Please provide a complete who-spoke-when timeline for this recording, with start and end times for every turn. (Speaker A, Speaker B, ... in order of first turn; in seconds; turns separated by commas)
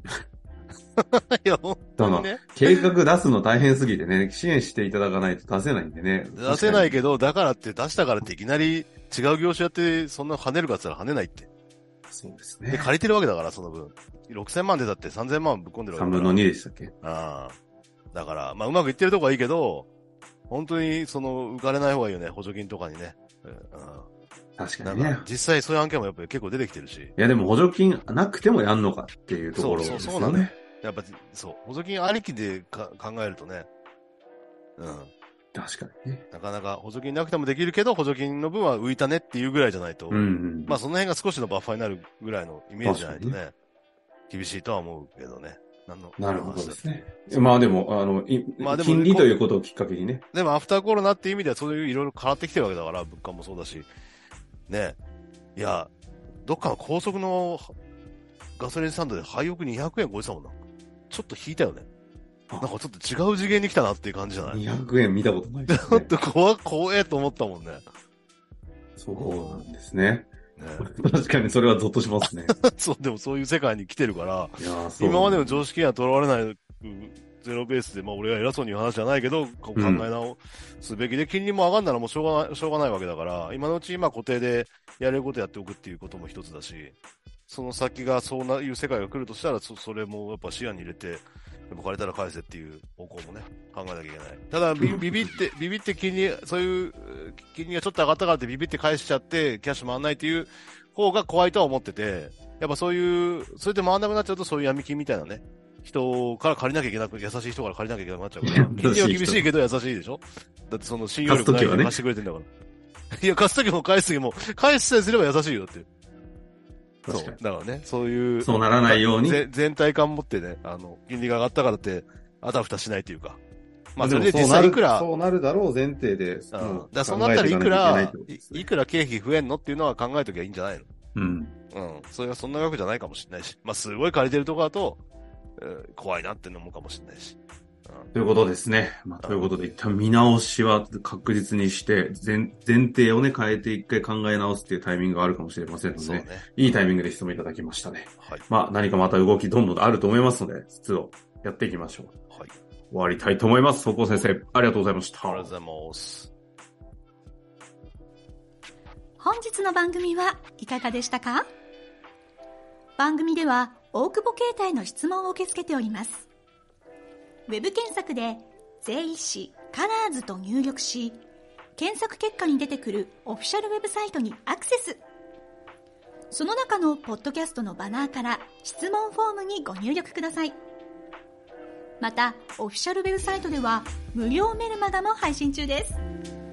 Speaker A: 1.0-2.9, Speaker B: 2.0-7.0, Speaker A: 6.4-11.5, Speaker B: 12.1-12.9, Speaker A: 12.7-16.4, Speaker B: 15.9-16.9, Speaker A: 17.0-17.6, Speaker A: 18.1-19.9, Speaker A: 20.5-24.1, Speaker B: 24.6-25.3, Speaker A: 24.8-27.1, Speaker B: 27.2-30.6, Speaker A: 29.5-33.7, Speaker A: 34.8-35.1, Speaker B: 35.5-36.2, Speaker A: 36.3-43.5, Speaker B: 40.1-40.8, Speaker B: 42.8-43.4, Speaker A: 44.3-47.6, Speaker B: 46.2-50.2, Speaker A: 48.6-49.4, Speaker A: 50.3-53.9, Speaker A: 54.7-55.0, Speaker A: 55.6-55.9, Speaker A: 56.5-57.7, Speaker A: 58.6-60.6, Speaker A: 61.1-61.9, Speaker A: 62.6-64.6, Speaker B: 64.5-66.1, Speaker A: 65.7-67.9, Speaker B: 69.0-72.5, Speaker A: 69.1-69.7, Speaker A: 70.6-70.9, Speaker A: 72.2-87.0, Speaker B: 74.6-75.7, Speaker B: 79.8-80.1, Speaker A: 87.5-112.5, Speaker B: 94.8-95.3, Speaker B: 108.4-109.5, Speaker B: 111.3-112.0, Speaker A: 113.1-115.9, Speaker B: 117.1-117.4, Speaker A: 117.1-123.4, Speaker B: 118.4-119.4, Speaker A: 124.0-125.1, Speaker B: 124.0-128.7, Speaker A: 126.5-130.9, Speaker B: 131.2-131.5, Speaker A: 131.7-135.0, Speaker A: 135.6-138.1, Speaker B: 138.1-152.1, Speaker A: 139.2-139.5, Speaker A: 145.9-146.8, Speaker A: 148.2-148.5, Speaker B: 152.9-155.5, Speaker A: 155.2-156.3, Speaker C: 159.2-161.5, Speaker C: 163.0-166.3, Speaker C: 167.5-171.2, Speaker C: 171.8-175.0, Speaker C: 176.3-180.6, Speaker C: 182.0-186.0